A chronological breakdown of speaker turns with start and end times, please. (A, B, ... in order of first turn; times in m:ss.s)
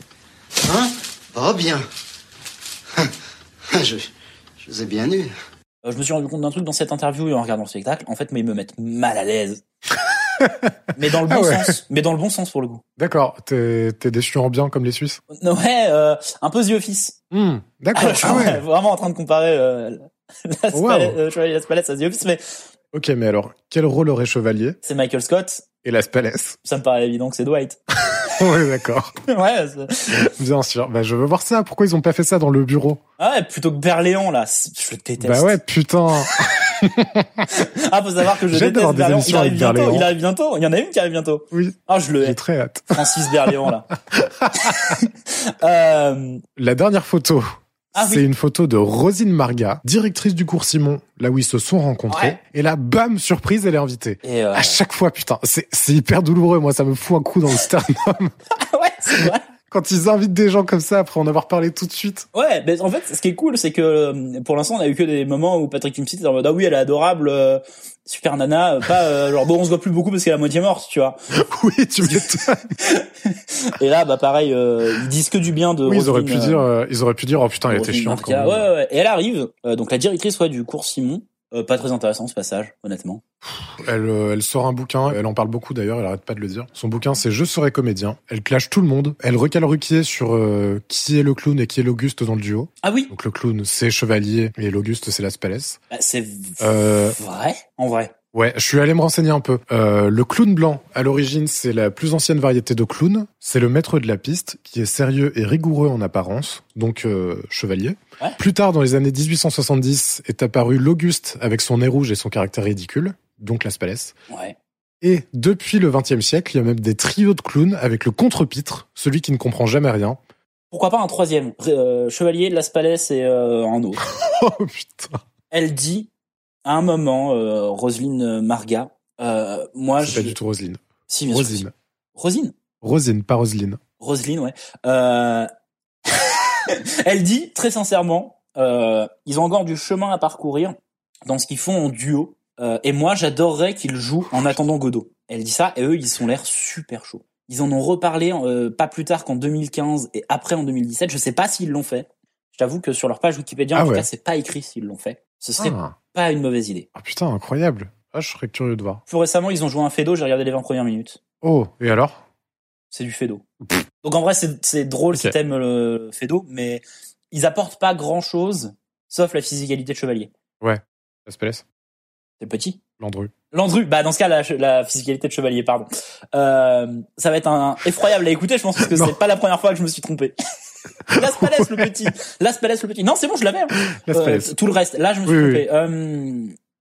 0:00.6-0:01.8 A
0:03.7-0:04.1 A
0:04.6-0:05.3 A
0:05.8-0:09.6 B
0:10.4-0:10.7 C
0:11.0-0:12.8 B
0:11.3-0:11.8 C
0:13.0-0:15.2 C
0:15.3-0:17.2 B
0:17.3-0:18.6 C
0:18.0-0:22.4 B
0:20.7-0:21.2 C
0:22.9-0:24.8 C
0:24.8-0:25.6 B
0:25.8-0:26.6 C
0:26.6-0:27.8 B
0:28.4-0:29.1 C
0:29.3-0:30.2 B
0:30.1-0:33.0 C
0:33.2-0:35.6 B
0:35.2-0:37.4 C
0:37.5-0:42.4 B
0:38.5-0:40.1 C
0:41.5-0:44.9 C
0:42.9-0:43.9 B
0:44.6-0:46.4 B
0:46.6-0:58.3 C
0:48.0-0:48.2 B
0:52.1-0:52.4 B
0:54.2-0:54.8 B
0:58.6-0:59.4 B
0:59.2-1:02.3 C
1:02.3-1:11.2 B
1:11.4-1:12.6 C
1:12.0-1:12.3 B
1:12.8-1:16.6 B
1:15.8-1:18.7 C
1:17.7-1:23.2 B
1:23.4-1:35.8 C
1:32.8-1:33.1 B
1:35.9-1:38.1 B
1:36.6-1:37.2 C
1:38.3-1:54.2 C
1:54.3-1:54.6 B
1:55.0-2:00.2 C
2:00.7-2:04.0 B
2:04.0-2:05.2 C
2:05.5-2:06.1 B
2:06.6-2:10.4 B
2:10.0-2:11.7 C
2:11.1-2:12.5 B
2:12.8-2:13.8 C
2:14.0-2:15.5 B
2:16.7-2:20.8 B
2:21.3-2:36.9 B
2:33.7-2:34.1 C
2:35.6-2:36.0 C
2:37.0-2:39.0 C
2:39.1-2:41.2 B
2:41.4-2:42.2 C
2:42.9-2:43.4 B
2:44.0-2:50.3 B
2:50.6-2:51.6 C
2:52.4-2:52.8 B
2:53.0-2:53.3 C
2:53.5-3:00.3 B
2:58.8-2:59.1 C
3:01.1-3:01.9 C
3:01.2-3:06.5 B
3:03.8-3:04.5 C
3:05.3-3:05.6 C